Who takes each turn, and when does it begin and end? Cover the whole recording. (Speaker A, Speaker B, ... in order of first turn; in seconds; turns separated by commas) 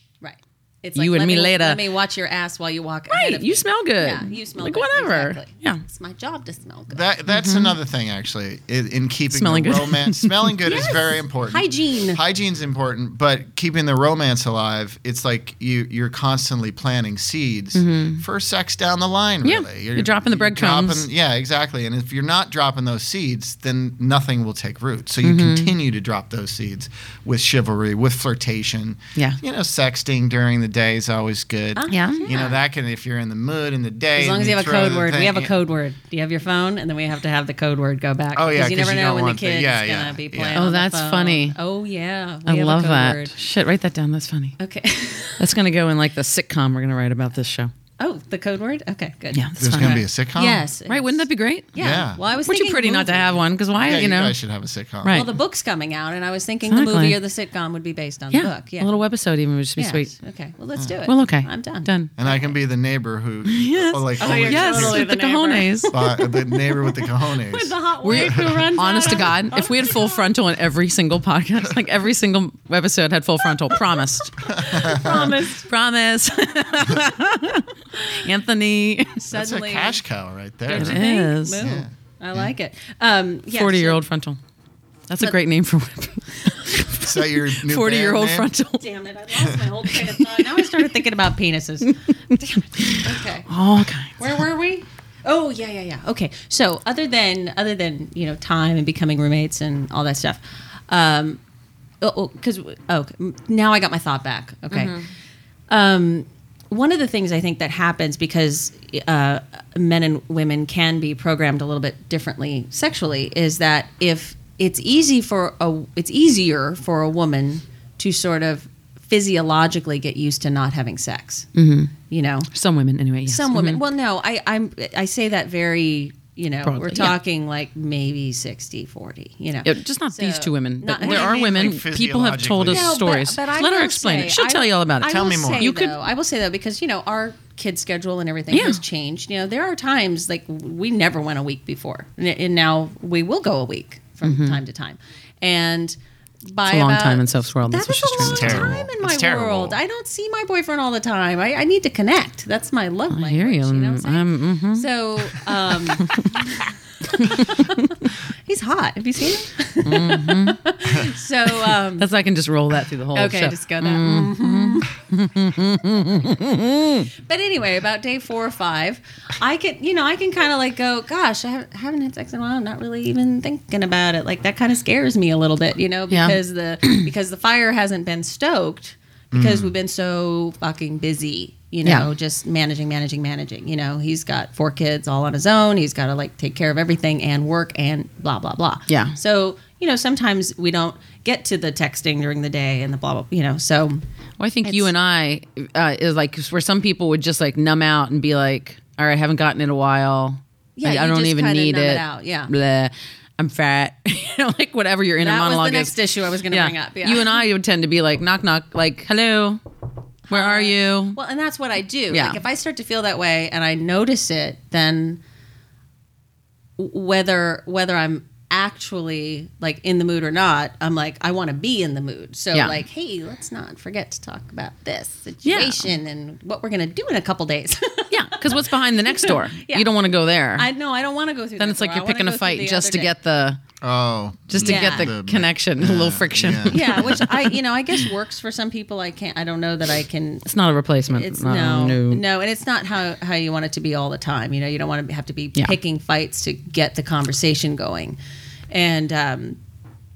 Speaker A: 0.2-7.0, Speaker B: 1.0-1.8, Speaker B: 3.1-5.8, Speaker C: 6.9-35.5, Speaker B: 7.3-7.8, Speaker B: 9.3-10.5, Speaker A: 10.7-12.2, Speaker B: 17.8-18.2, Speaker B: 19.4-21.1, Speaker B: 25.2-25.7, Speaker A: 31.8-32.6, Speaker B: 31.9-32.3, Speaker A: 34.2-43.3, Speaker C: 38.4-40.7, Speaker B: 40.5-41.6, Speaker B: 42.5-44.6, Speaker A: 44.6-45.5, Speaker B: 45.4-47.7, Speaker A: 48.0-53.4, Speaker B: 49.3-50.0, Speaker C: 49.6-50.6, Speaker B: 50.9-51.7, Speaker C: 51.8-52.2, Speaker B: 52.5-54.4, Speaker C: 53.8-55.3, Speaker B: 55.0-55.3, Speaker A: 55.1-58.9, Speaker B: 56.7-57.2, Speaker B: 58.3-60.1, Speaker A: 59.8-62.5, Speaker B: 61.1-62.1, Speaker C: 62.2-65.1, Speaker B: 63.5-65.9, Speaker A: 64.2-70.3, Speaker C: 65.9-68.6, Speaker B: 68.0-74.4, Speaker A: 74.5-75.7, Speaker C: 74.5-75.3, Speaker B: 75.6-79.2, Speaker A: 78.0-78.2, Speaker A: 79.2-80.0, Speaker C: 79.3-81.0, Speaker A: 80.7-84.0, Speaker B: 80.7-81.7, Speaker C: 81.6-82.5, Speaker B: 83.5-84.4, Speaker B: 85.1-88.9, Speaker C: 87.0-88.5, Speaker A: 88.8-93.5, Speaker B: 89.9-90.8, Speaker B: 91.9-94.4, Speaker A: 94.2-101.4, Speaker A: 102.0-105.0, Speaker B: 104.7-105.1, Speaker A: 105.7-121.5, Speaker B: 121.5-121.9, Speaker A: 122.1-122.5, Speaker B: 122.5-123.8, Speaker A: 123.3-131.4, Speaker B: 126.6-127.2, Speaker B: 129.7-136.0, Speaker C: 131.0-133.0, Speaker A: 132.7-156.5, Speaker C: 135.1-135.7, Speaker B: 138.5-138.8, Speaker B: 144.2-144.6, Speaker B: 146.7-148.8, Speaker C: 148.2-149.8, Speaker B: 153.1-156.5, Speaker A: 157.1-162.1, Speaker B: 157.2-157.9, Speaker B: 159.8-160.6, Speaker B: 161.5-167.1, Speaker A: 163.1-164.9, Speaker A: 167.1-194.0, Speaker B: 176.1-177.1, Speaker C: 179.3-179.7, Speaker B: 188.9-189.2, Speaker B: 194.4-206.0, Speaker A: 200.8-202.5, Speaker A: 205.2-207.4, Speaker B: 206.5-209.6, Speaker A: 210.3-215.2, Speaker B: 210.3-211.2, Speaker B: 212.1-212.4, Speaker A: 216.8-229.9, Speaker B: 222.5-222.8, Speaker B: 225.4-225.9, Speaker B: 228.1-230.7, Speaker A: 230.6-233.1, Speaker B: 231.6-233.6, Speaker C: 233.8-237.2, Speaker B: 234.5-237.5, Speaker A: 234.6-235.1, Speaker A: 236.7-240.5, Speaker B: 240.5-242.2, Speaker A: 241.1-248.2, Speaker A: 248.7-249.6